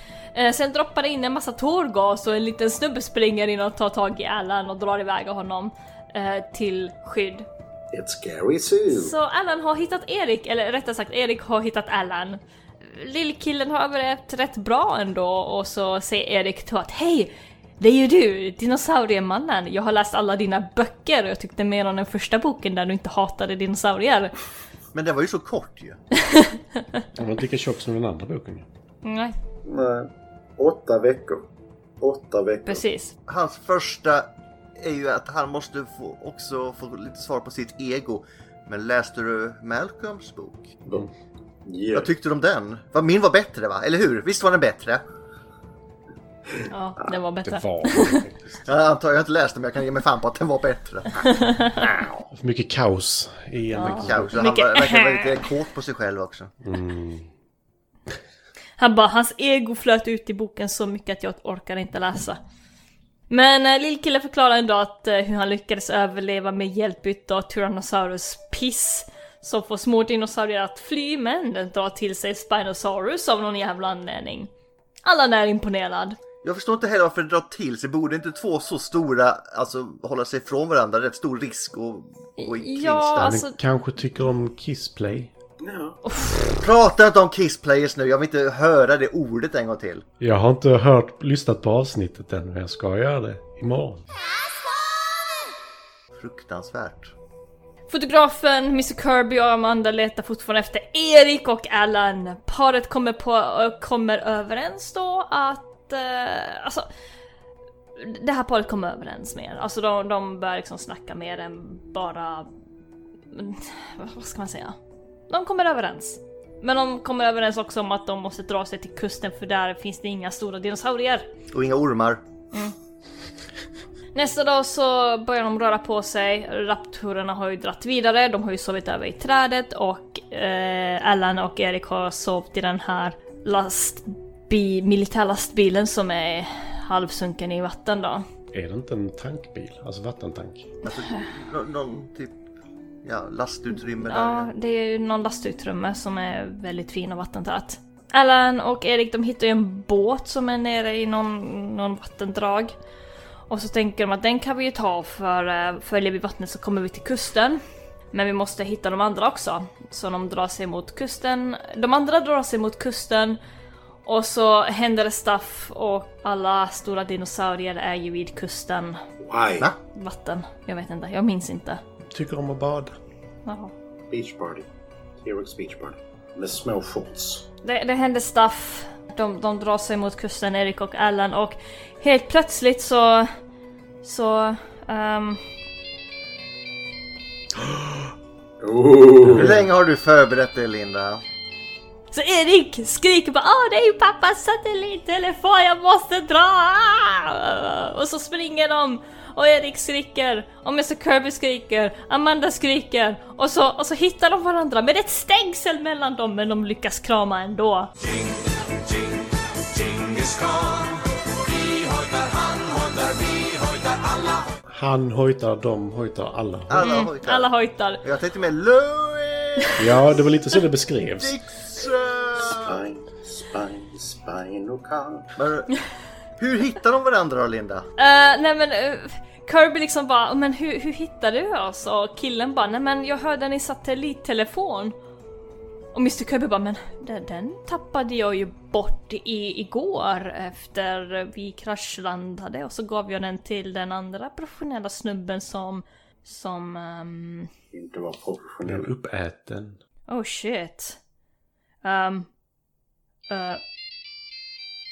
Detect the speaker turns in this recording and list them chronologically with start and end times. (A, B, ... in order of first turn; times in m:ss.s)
0:00.3-0:07.4 A
0:07.9-0:09.1 B
0:08.9-0:24.3 A
0:24.9-0:26.0 C
0:26.3-0:26.6 A
0:27.2-0:28.6 D
0:29.0-0:29.3 A
0:29.6-0:31.4 B
0:32.0-0:32.8 B
0:32.6-0:33.1 A
0:33.3-0:40.7 C
0:41.6-0:42.1 B
0:41.9-0:45.0 C
0:46.7-0:48.2 A
0:47.4-0:48.6 D
0:48.6-0:51.1 C
0:51.2-0:51.9 A
0:51.9-0:52.2 B
0:52.3-0:54.3 D
0:53.7-0:55.4 A
0:54.0-0:56.5 C
0:56.6-0:57.3 D
0:58.8-1:02.4 A
1:03.3-1:14.5 A
1:15.0-1:16.2 A
1:16.4-1:23.4 C
1:22.4-1:23.6 A
1:23.1-1:25.3 D
1:25.6-1:26.0 B
1:26.0-1:26.6 A
1:26.6-1:30.0 C
1:30.2-1:34.0 D
1:36.2-1:37.1 C
1:37.9-1:46.9 A
1:48.0-1:52.5 A
1:53.3-1:54.8 A
1:55.3-2:01.3 A
2:01.5-2:02.2 C
2:04.1-2:18.2 A
2:18.5-2:20.7 D
2:20.8-2:22.4 C
2:23.0-2:24.5 C
2:24.0-2:32.7 A
2:33.5-2:37.6 A
2:38.1-2:43.4 A
2:44.0-2:49.0 A
2:49.2-2:49.7 B
2:49.9-2:51.8 A
2:52.1-2:52.9 D
2:53.4-2:53.7 A
2:54.1-2:54.6 B
2:55.2-2:57.4 B
2:57.6-3:03.3 A
3:04.0-3:05.4 A
3:08.6-3:09.6 B
3:09.3-3:11.2 C
3:12.1-3:27.9 A
3:34.7-3:36.8 D
3:36.7-3:37.5 C
3:36.8-3:38.0 A
3:38.0-3:39.9 C
3:39.8-3:41.3 D
3:41.2-3:42.8 C
3:42.5-3:45.3 B
3:45.4-3:45.7 C
3:46.4-3:47.9 C
3:48.0-3:54.9 A
3:55.9-4:07.5 A
4:07.7-4:08.9 B
4:08.6-4:09.8 D
4:10.1-4:11.0 A
4:11.8-4:12.3 A
4:13.3-4:13.6 A